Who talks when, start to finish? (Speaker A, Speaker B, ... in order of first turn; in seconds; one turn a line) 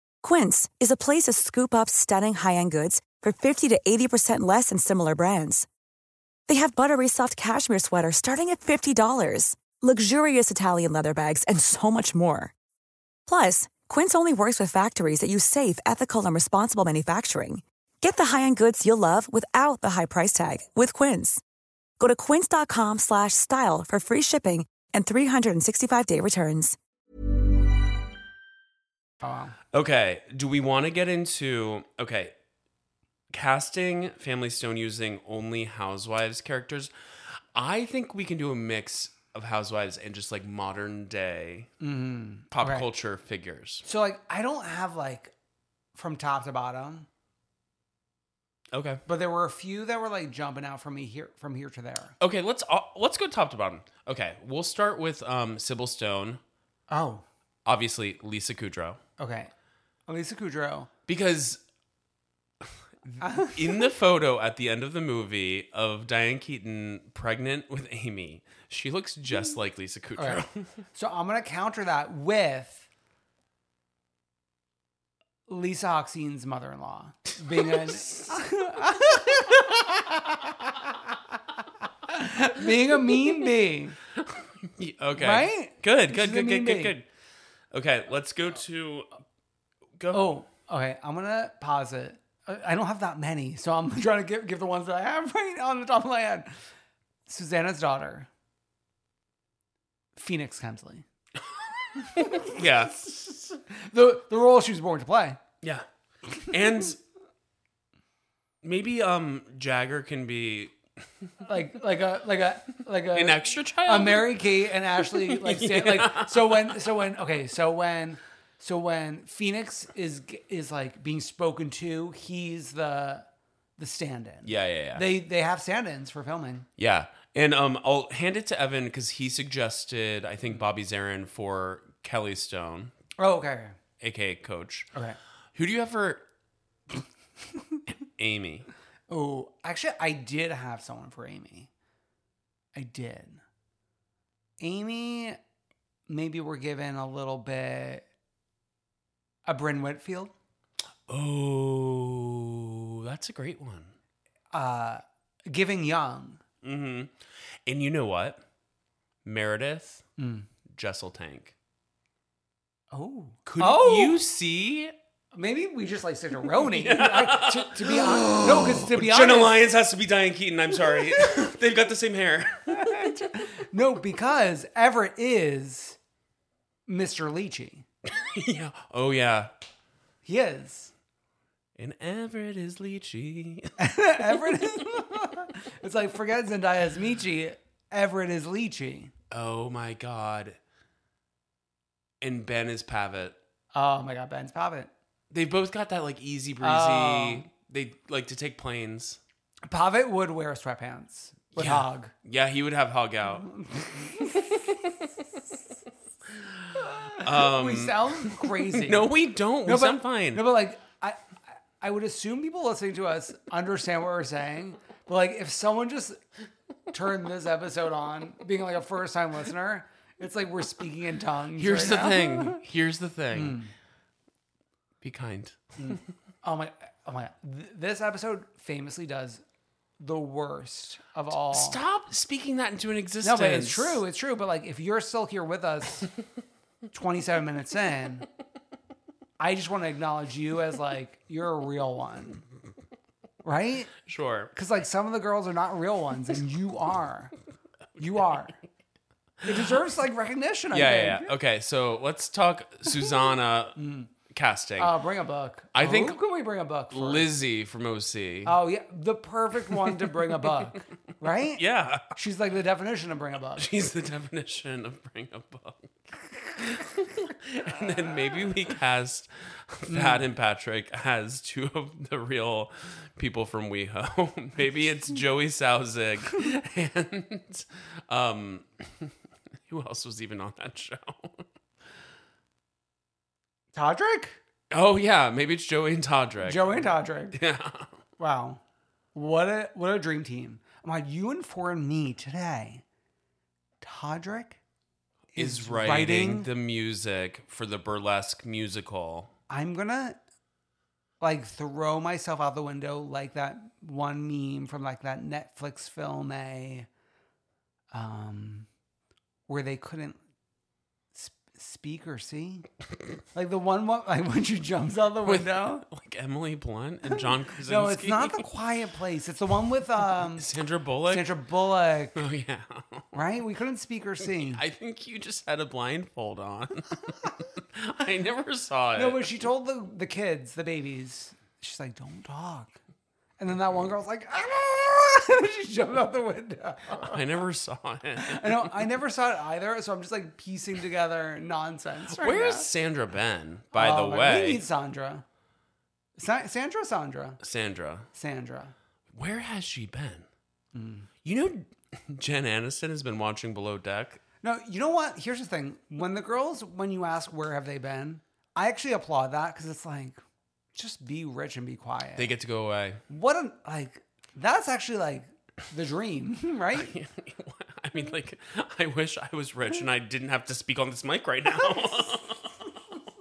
Speaker A: 0.2-5.7
Speaker A: 6.5-12.5
Speaker A: 13.3-21.4
Speaker A: 22.0-26.8
Speaker B: 29.2-29.5
Speaker C: 29.7-32.3
Speaker C: 33.3-36.9
Speaker C: 37.5-41.7
Speaker B: 41.8-42.9
Speaker C: 42.5-43.8
Speaker B: 43.8-45.3
Speaker B: 46.0-47.1
Speaker C: 48.7-49.0
Speaker B: 49.1-52.1
Speaker C: 52.2-56.4
Speaker B: 56.9-57.2
Speaker C: 57.6-59.0
Speaker B: 59.2-59.5
Speaker B: 60.1-60.9
Speaker C: 61.1-61.6
Speaker C: 63.1-70.7
Speaker B: 63.2-63.9
Speaker B: 70.2-70.4
Speaker B: 70.9-72.9
Speaker B: 75.5-80.2
Speaker C: 77.4-78.4
Speaker B: 82.1-84.0
Speaker C: 84.2-87.1
Speaker B: 85.2-87.0
Speaker C: 87.7-89.2
Speaker C: 90.0-90.3
Speaker B: 90.1-96.5
Speaker B: 97.3-98.3
Speaker B: 100.2-101.0
Speaker C: 101.8-103.3
Speaker B: 102.1-103.1
Speaker B: 103.7-105.4
Speaker C: 106.4-107.0
Speaker C: 108.6-110.7
Speaker B: 111.4-123.2
Speaker C: 113.1-114.5
Speaker C: 115.0-116.9
Speaker B: 123.8-126.7
Speaker C: 124.5-125.0
Speaker C: 126.8-132.9
Speaker B: 133.2-133.8
Speaker C: 134.0-134.9
Speaker B: 134.9-135.2
Speaker C: 135.6-136.2
Speaker C: 138.2-138.7
Speaker B: 139.1-141.7
Speaker B: 142.8-143.4
Speaker B: 144.6-145.4
Speaker B: 146.1-148.1
Speaker B: 149.5-150.3
Speaker C: 151.1-153.9
Speaker B: 154.5-156.4
Speaker C: 156.6-157.1
Speaker C: 157.7-158.4
Speaker C: 159.2-160.0
Speaker B: 160.2-160.5
Speaker C: 160.7-161.5
Speaker B: 162.9-164.2
Speaker C: 163.5-164.9
Speaker B: 165.3-169.6
Speaker C: 166.6-173.1
Speaker B: 171.0-171.4
Speaker B: 172.7-176.0
Speaker B: 176.9-177.8
Speaker C: 178.1-179.5
Speaker B: 180.2-180.9
Speaker C: 181.8-183.8
Speaker B: 183.8-189.1
Speaker C: 189.3-190.6
Speaker C: 192.2-193.4
Speaker B: 193.7-194.9
Speaker C: 195.3-199.2
Speaker B: 196.6-197.5
Speaker B: 199.7-202.1
Speaker C: 201.6-203.5
Speaker B: 203.5-204.5
Speaker C: 204.2-204.9
Speaker B: 206.8-209.1
Speaker C: 207.2-210.5
Speaker B: 209.7-211.2
Speaker B: 211.8-216.2
Speaker B: 216.9-222.6
Speaker C: 221.6-223.6
Speaker B: 223.3-223.7
Speaker C: 225.0-226.0
Speaker B: 225.8-229.4
Speaker B: 230.0-231.8
Speaker C: 231.5-234.0
Speaker B: 233.2-236.1
Speaker B: 236.9-238.3
Speaker B: 239.4-242.4
Speaker B: 243.4-243.9
Speaker C: 244.1-244.5
Speaker B: 244.5-247.3
Speaker B: 248.0-248.6
Speaker B: 249.4-251.3
Speaker C: 250.7-253.8
Speaker B: 253.8-254.1
Speaker C: 254.3-254.9
Speaker B: 254.8-257.3
Speaker C: 255.8-256.2
Speaker C: 256.9-258.6
Speaker B: 258.4-261.6
Speaker C: 259.7-260.5
Speaker C: 261.6-262.1
Speaker B: 262.1-263.7
Speaker C: 263.6-279.1
Speaker B: 269.9-270.2
Speaker C: 279.7-281.4
Speaker B: 283.7-284.4
Speaker C: 284.7-287.9
Speaker B: 286.4-287.4
Speaker B: 288.2-288.6
Speaker B: 289.1-292.8
Speaker B: 293.8-294.6
Speaker C: 295.4-299.3
Speaker B: 295.4-296.5
Speaker B: 299.5-300.2
Speaker B: 301.2-306.9
Speaker B: 307.9-308.7
Speaker B: 309.5-310.2
Speaker B: 311.1-312.7
Speaker B: 313.3-315.8
Speaker C: 315.2-318.4
Speaker B: 317.7-320.5
Speaker C: 320.4-321.4
Speaker B: 321.1-322.2
Speaker C: 322.2-323.1
Speaker B: 323.1-324.6
Speaker C: 324.3-329.3
Speaker B: 329.0-332.8
Speaker B: 333.4-337.4
Speaker C: 337.0-338.8
Speaker B: 338.2-342.7
Speaker C: 342.1-344.6
Speaker B: 343.7-345.2
Speaker B: 346.2-347.4
Speaker C: 347.4-348.1
Speaker B: 348.1-348.8
Speaker C: 349.1-350.3
Speaker B: 350.7-351.1
Speaker C: 351.2-354.2
Speaker B: 354.4-360.2
Speaker B: 360.7-362.3
Speaker C: 362.2-363.0
Speaker B: 363.1-366.9
Speaker C: 366.8-372.5